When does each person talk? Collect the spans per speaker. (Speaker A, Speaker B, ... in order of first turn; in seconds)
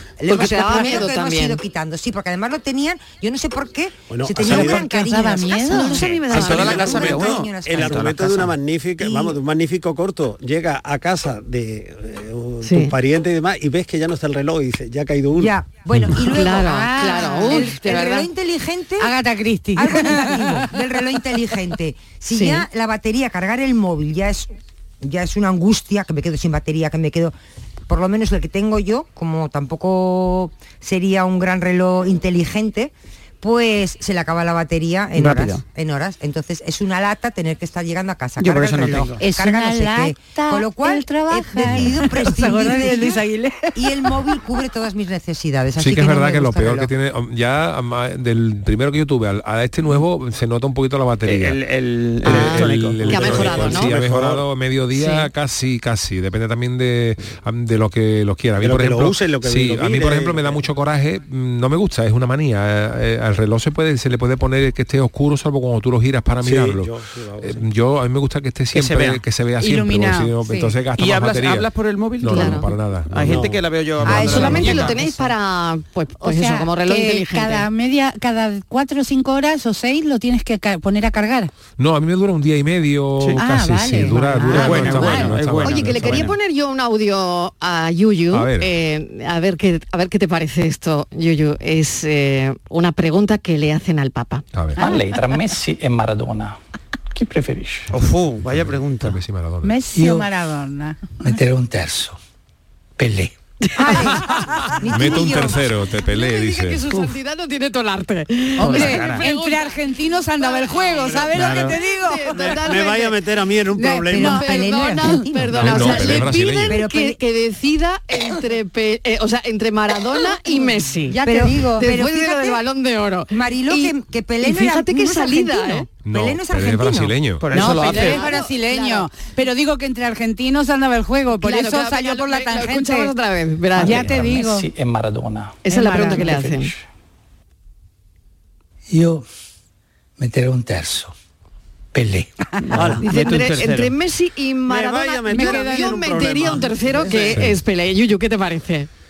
Speaker A: 0.2-8.4, 9.0-9.4, 15.3-19.1, 19.8-27.3, 27.9-43.2, 43.7-46.9, 103.8-104.1, 104.8-105.7, 114.1-117.2, 121.2-122.6, 123.3-127.1
Speaker B: 0.3-1.6, 5.5-7.2, 12.6-12.9, 16.1-18.3, 22.3-22.6, 52.2-53.9, 72.3-72.7, 74.1-77.7, 85.6-94.4, 103.7-104.2, 106.0-109.8, 110.4-113.2, 114.2-125.9, 127.7-129.1, 131.4-134.2, 135.6-136.7, 142.8-148.9
Speaker C: 0.4-1.0, 4.4-6.0, 16.6-17.8, 19.0-20.7, 39.2-43.7, 54.9-55.3, 69.6-70.8, 74.1-75.2, 76.2-81.5, 83.4-85.4, 99.6-101.1, 108.6-112.7, 113.8-115.2, 120.3-121.8, 127.5-133.1, 133.8-134.7, 135.7-136.3, 145.3-146.6
Speaker D: 4.1-4.8, 6.3-15.5, 53.3-54.5, 58.6-60.6, 66.4-67.6, 73.2-73.6, 111.3-111.7, 112.3-114.4, 142.8-143.1, 144.7-147.4
Speaker E: 6.0-8.5, 35.2-35.6, 38.4-39.2, 51.2-53.9, 68.7-69.2, 70.9-75.1, 84.3-86.4, 97.9-99.2, 108.6-109.3, 111.4-111.7, 127.4-128.3, 142.7-143.9
Speaker F: 45.8-51.6, 52.2-73.4, 74.0-74.9, 81.8-86.3, 88.3-88.7, 94.5-94.8, 98.4-99.8, 104.9-106.8, 115.6-116.8, 126.0-127.5
Speaker G: 94.8-96.5, 97.1-97.9, 99.9-100.3, 101.2-102.2, 103.0-103.3, 133.8-136.8, 138.9-139.2, 140.2-141.1, 141.9-142.3